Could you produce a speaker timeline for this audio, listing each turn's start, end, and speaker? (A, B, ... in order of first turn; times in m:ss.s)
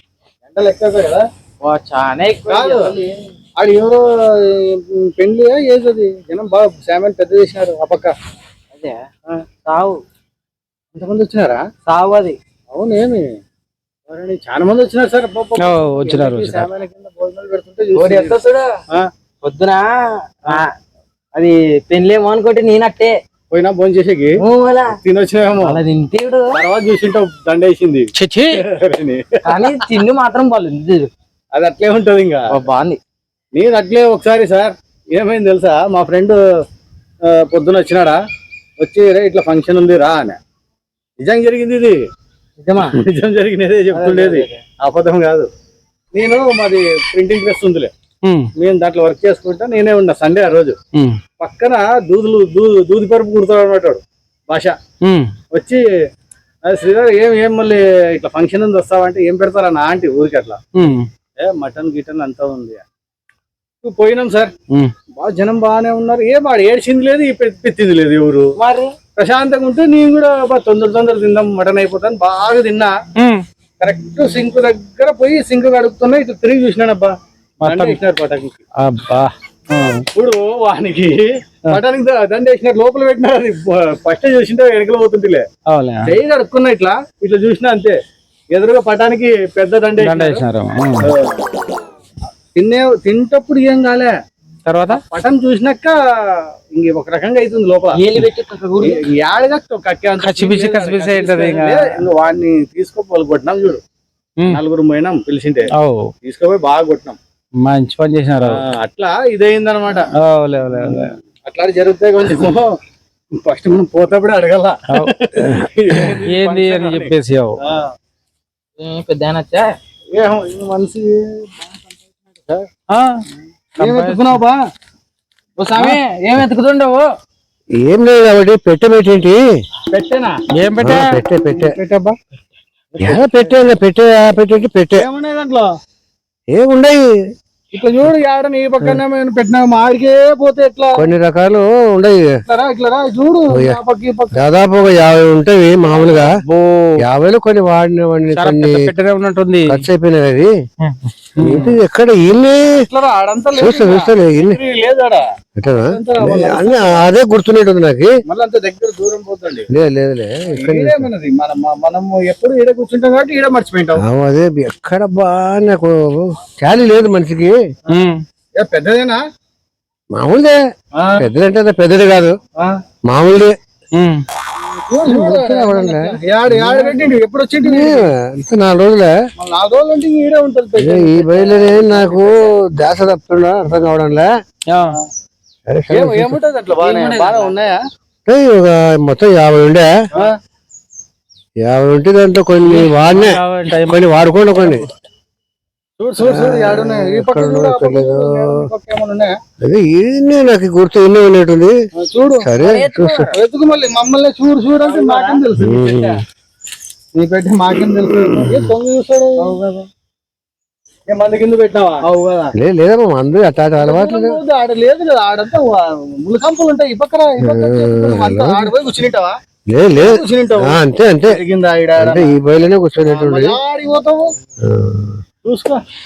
0:00.4-0:01.2 A
0:01.6-0:03.1 B
0:02.5-0:02.9 A
0:03.6-0:08.1 A
0:09.6-0:10.0 B
0:10.9-0:11.6 A
0:11.8-0:12.4 B
0:12.7-0:13.2 A
0:14.1-0:18.4 A
0:15.6-0:16.7 C
0:17.9-0:18.7 B
0:19.4-0:20.7 B
0:21.3-0:23.1 B
0:23.5-0:24.3 A
0:24.4-0:24.9 B
0:25.0-0:25.8 A
0:25.6-0:26.5 B
0:26.5-0:29.8 A
0:28.2-0:28.6 C
0:29.4-0:31.1 B
0:31.5-0:32.4 A
0:32.5-0:33.0 B
0:33.5-0:36.4 A
0:37.2-0:38.2 A
0:38.8-0:40.4 A
0:41.2-0:42.0 A
0:42.6-0:43.0 B
0:42.8-0:45.5 A
0:43.9-0:44.6 B
0:46.1-0:47.9 A
0:48.6-0:50.7 A
0:51.4-0:54.8 A
0:55.0-0:55.3 C
0:55.5-0:55.8 A
0:56.6-1:00.6 A
1:00.8-1:01.1 C
1:01.4-1:02.8 A
1:03.8-1:04.5 A
1:05.2-1:08.5 A
1:08.6-1:08.9 B
1:09.2-1:12.9 A
1:13.2-1:13.4 C
1:13.8-1:17.1 A
1:17.6-1:18.0 C
1:17.6-1:18.6 A
1:18.8-1:20.0 C
1:20.1-1:25.4 A
1:25.7-1:26.1 C
1:26.0-1:28.0 A
1:28.5-1:30.4 A
1:30.0-1:31.1 C
1:31.0-1:31.4 A
1:32.5-1:34.1 A
1:34.6-1:35.0 C
1:34.9-1:38.0 A
1:38.0-1:39.0 B
1:38.8-1:43.8 A
1:40.2-1:41.8 C
1:44.5-1:45.7 A
1:45.8-1:46.1 C
1:46.2-1:47.2 A
1:47.6-1:48.6 C
1:48.4-1:50.1 A
1:50.2-1:51.1 C
1:50.7-1:52.7 A
1:53.4-1:57.8 A
1:54.9-1:55.6 C
1:56.3-1:57.6 C
1:58.8-1:59.7 B
2:00.1-2:01.7 A
2:02.3-2:02.7 A
2:02.9-2:03.2 C
2:03.8-2:04.4 C
2:03.8-2:04.6 A
2:05.6-2:07.1 B
2:07.8-2:09.4 D
2:09.9-2:10.3 A
2:10.6-2:11.2 C
2:10.8-2:11.7 D
2:11.4-2:12.2 A
2:13.0-2:13.5 A
2:13.0-2:15.0 D
2:15.0-2:15.7 A
2:16.5-2:17.1 D
2:17.7-2:21.0 A
2:21.0-2:22.2 D
2:22.5-2:24.3 A
2:24.4-2:26.3 D
2:26.2-2:26.9 C
2:27.0-2:28.8 D
2:28.4-2:29.8 C
2:29.7-2:30.5 D
2:30.8-2:31.8 C
2:31.4-2:32.7 D
2:32.8-2:35.2 A
2:33.5-2:34.6 D
2:35.6-2:38.1 D
2:35.9-2:37.0 A
2:38.3-2:39.7 A
2:39.7-2:41.1 D
2:40.5-2:44.0 A
2:44.0-2:47.6 D
2:47.9-2:48.2 C
2:48.6-2:49.2 A
2:50.1-2:50.6 D
2:51.0-2:51.2 A
2:51.2-2:52.3 D
2:53.1-2:53.5 D
2:54.0-2:54.2 C
2:54.6-2:58.1 A
2:55.0-2:56.9 D
2:57.6-2:59.1 D
2:59.4-3:02.3 A
3:00.8-3:04.3 D
3:05.7-3:06.3 D
3:05.9-3:07.8 A
3:06.8-3:07.5 B
3:08.2-3:09.9 D
3:11.6-3:14.8 D
3:12.6-3:14.0 C
3:16.0-3:19.3 A
3:16.2-3:18.7 D
3:19.6-3:21.7 D
3:22.0-3:22.5 A
3:22.4-3:23.3 D
3:22.6-3:23.3 B
3:23.3-3:26.2 A
3:24.8-3:25.4 B
3:25.6-3:26.2 D
3:27.2-3:29.5 A
3:27.9-3:28.6 D
3:29.4-3:29.9 B
3:31.1-3:32.1 A
3:32.1-3:32.5 B
3:32.6-3:34.4 D
3:33.8-3:39.3 A
3:37.4-3:38.7 D
3:39.7-3:41.4 D
3:40.0-3:42.3 A
3:42.0-3:43.6 D
3:43.0-3:44.3 A
3:44.6-3:45.2 D
3:45.4-3:45.8 A